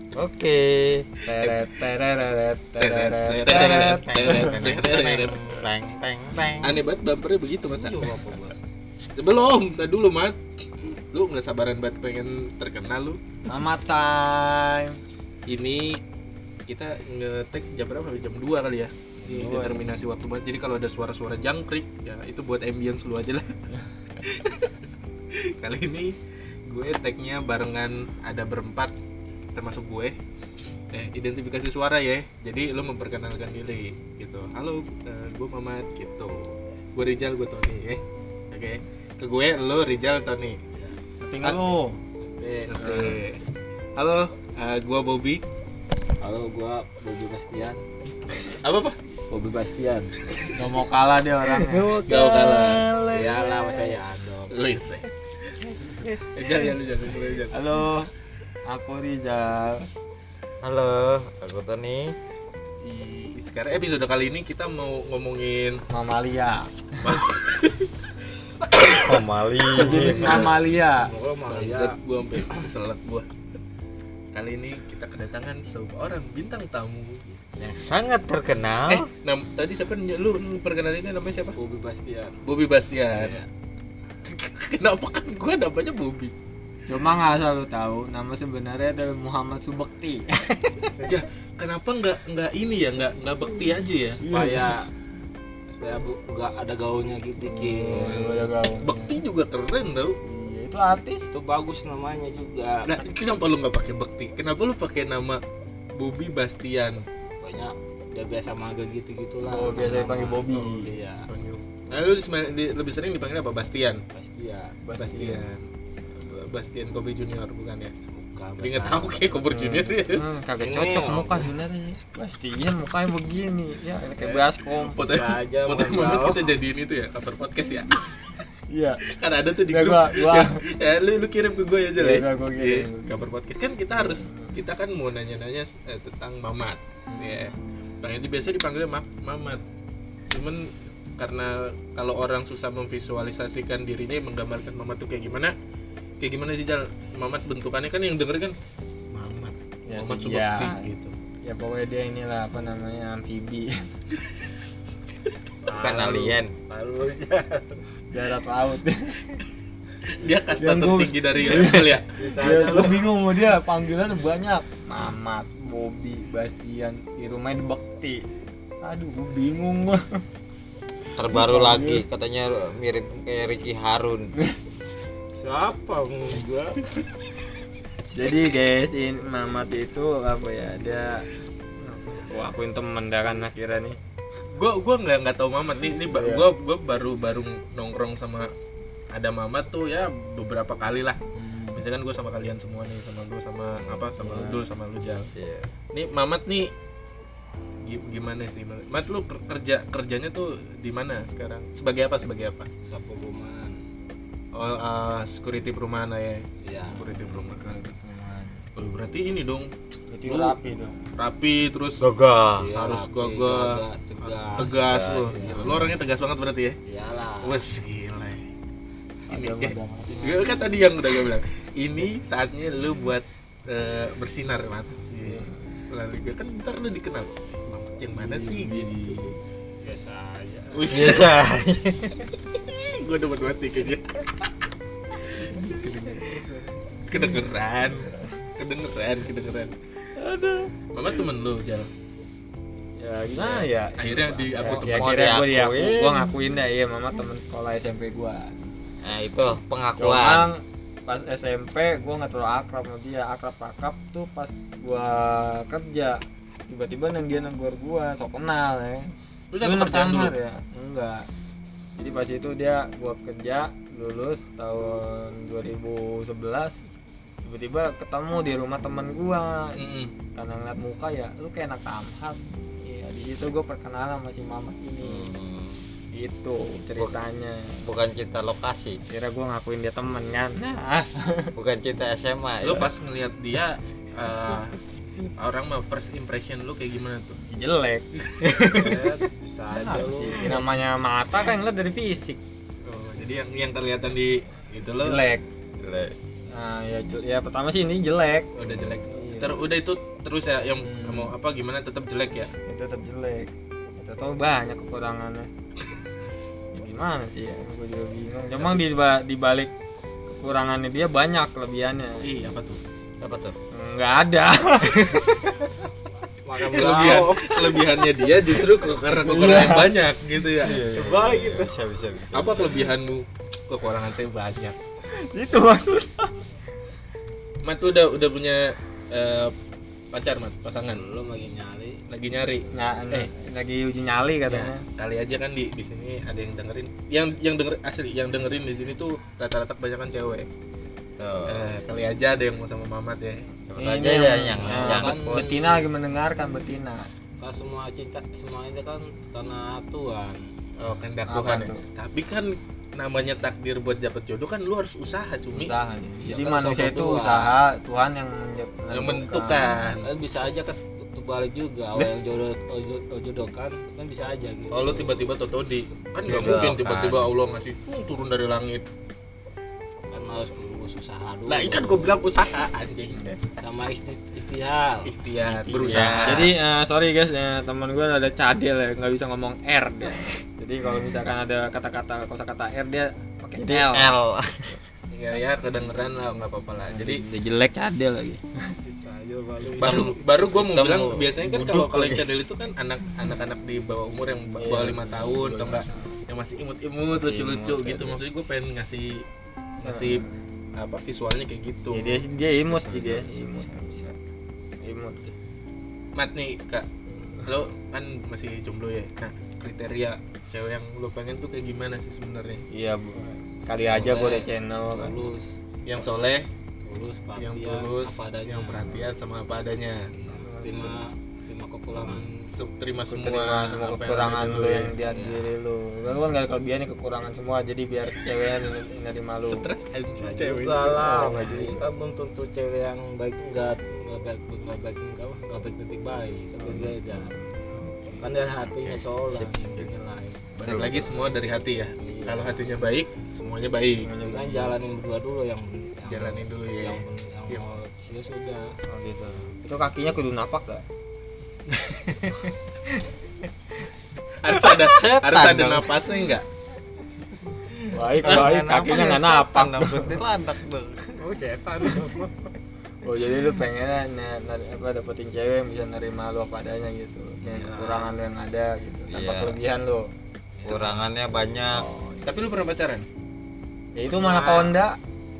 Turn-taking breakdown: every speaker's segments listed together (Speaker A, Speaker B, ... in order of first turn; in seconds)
Speaker A: 0.1-1.1, 3.4-6.8, 51.6-54.0, 60.6-62.1, 68.8-70.5, 77.6-79.1, 155.8-156.5, 171.2-174.3, 193.8-194.6, 195.3-195.7, 212.0-212.7, 230.9-232.3, 244.6-246.3, 249.0-250.5, 275.0-275.9, 277.8-279.0, 281.6-282.9, 288.4-289.1, 295.8-296.1, 298.6-299.0, 313.2-313.6, 314.8-315.5, 320.6-322.9, 341.2-341.8, 343.7-345.5, 366.2-367.3, 375.8-376.5, 383.6-384.8, 390.5-392.3, 397.1-398.1, 402.7-403.9, 440.6-441.2, 451.7-452.5, 454.5-456.2, 458.2-461.2, 469.1-469.6, 470.6-471.9
Speaker B: 1.3-4.5, 13.4-15.0, 19.2-19.8, 41.3-42.0, 42.8-43.2, 50.5-52.0, 57.5-58.1, 58.7-59.9, 65.9-67.2, 69.7-71.1, 86.9-90.9, 94.2-94.7, 97.4-99.2, 100.2-101.2, 109.4-110.9, 114.8-115.5, 119.5-125.1, 128.7-129.0, 129.7-130.6, 132.0-133.1, 133.9-134.6, 137.1-137.5, 149.9-150.9, 151.4-153.9, 158.1-159.2, 160.6-168.2, 168.8-170.2, 171.3-172.0, 178.1-181.2, 181.8-184.0, 185.8-186.4, 191.3-191.8, 207.0-208.6, 210.1-211.0, 215.4-215.9, 219.3-220.6, 225.2-225.7, 228.2-229.4, 235.6-236.5, 238.0-238.2, 240.2-240.7, 243.0-248.6, 250.0-261.3, 261.9-266.8, 267.4-269.8, 270.3-275.3, 276.1-277.8, 279.1-281.5, 287.5-288.1, 289.7-292.4, 295.0-295.4, 296.5-298.5, 299.1-299.6, 300.8-301.3, 302.6-305.5, 306.7-309.7, 310.3-312.3, 313.7-315.5, 319.2-320.0, 325.1-326.4, 332.7-334.8, 343.8-347.1, 351.3-351.8, 355.5-359.9, 376.2-384.2, 386.9-388.8, 394.6-396.1, 399.8-400.4, 401.9-404.2, 404.8-405.2, 412.7-415.3, 420.4-421.0, 423.1-429.6, 431.0-431.9, 436.6-438.1, 444.0-444.8, 448.9-450.8, 457.9-460.2, 463.0-470.1, 471.7-472.2, 473.9-475.0
Speaker C: 2.8-5.4, 6.6-8.2, 9.2-13.2, 15.5-16.0, 16.7-23.5, 24.2-24.7, 25.3-26.1, 26.7-28.9, 29.6-30.1, 30.9-40.6, 41.2-41.6, 42.4-43.4, 44.0-45.4, 48.6-49.0, 50.4-50.8, 52.1-52.9, 54.5-55.1, 56.3-57.6, 62.8-65.8, 67.0-68.1, 71.5-73.3, 74.3-77.2, 78.9-81.6, 82.4-83.4, 84.2-86.3, 91.0-94.2, 97.9-100.2, 102.8-105.4, 106.0-107.0, 111.3-114.0, 114.9-115.6, 116.2-117.9, 118.6-120.2, 124.8-128.3, 129.1-139.6, 140.3-145.5, 146.2-148.5, 149.1-151.1, 160.2-162.1, 184.5-188.5, 189.1-191.2, 191.7-195.3, 195.9-196.7, 197.8-202.7, 204.5-207.8, 208.8-209.7, 210.2-210.6, 211.2-212.0, 212.8-216.8, 217.4-218.4, 219.3-229.2, 230.7-231.5, 232.5-234.5, 235.5-236.4, 237.0-239.7, 240.9-241.9, 243.3-245.2, 259.5-260.3, 269.8-270.1, 282.6-284.8, 285.4-287.4, 292.8-295.2, 298.5-302.5, 312.2-312.8, 316.7-320.8, 322.3-324.8, 327.6-329.5, 330.1-331.0, 332.1-333.3, 334.5-340.5, 341.4-343.4, 350.8-355.7, 358.9-360.1, 364.7-368.9, 371.5-373.4, 375.1-376.5, 385.1-387.2, 389.8-399.2, 399.8-400.2, 400.8-402.2, 406.1-406.9, 407.4-412.6, 415.9-416.5, 417.4-420.1, 421.9-424.9, 429.4-431.1, 438.9-439.9, 440.6-444.1, 446.1-447.7, 454.4-456.4, 472.2-473.1
Speaker D: 7.7-8.6, 19.2-19.7, 40.7-41.0, 46.2-47.9, 49.3-50.1, 53.1-54.6, 70.0-72.0, 81.5-82.4, 83.1-83.5, 94.3-94.9, 95.8-98.3, 101.3-103.0, 107.4-111.3, 114.1-114.8, 118.1-119.2, 120.6-121.5, 124.9-126.4, 155.6-157.8, 162.1-163.1, 175.4-176.9, 202.9-203.8, 206.6-207.0, 212.6-215.9, 216.8-217.6, 229.8-230.9, 288.7-290.6, 316.4-317.5, 320.8-321.8, 330.9-332.0, 344.7-345.7, 347.4-350.5, 356.2-357.5, 360.0-365.3, 370.1-372.1, 373.6-376.2, 388.8-390.3, 413.9-416.1, 416.8-419.0, 420.1-422.3, 425.1-425.5, 430.2-437.3, 438.2-440.4, 442.0-442.6, 444.2-448.7, 461.1-462.3, 467.4-468.1, 470.6-471.1, 474.1-474.8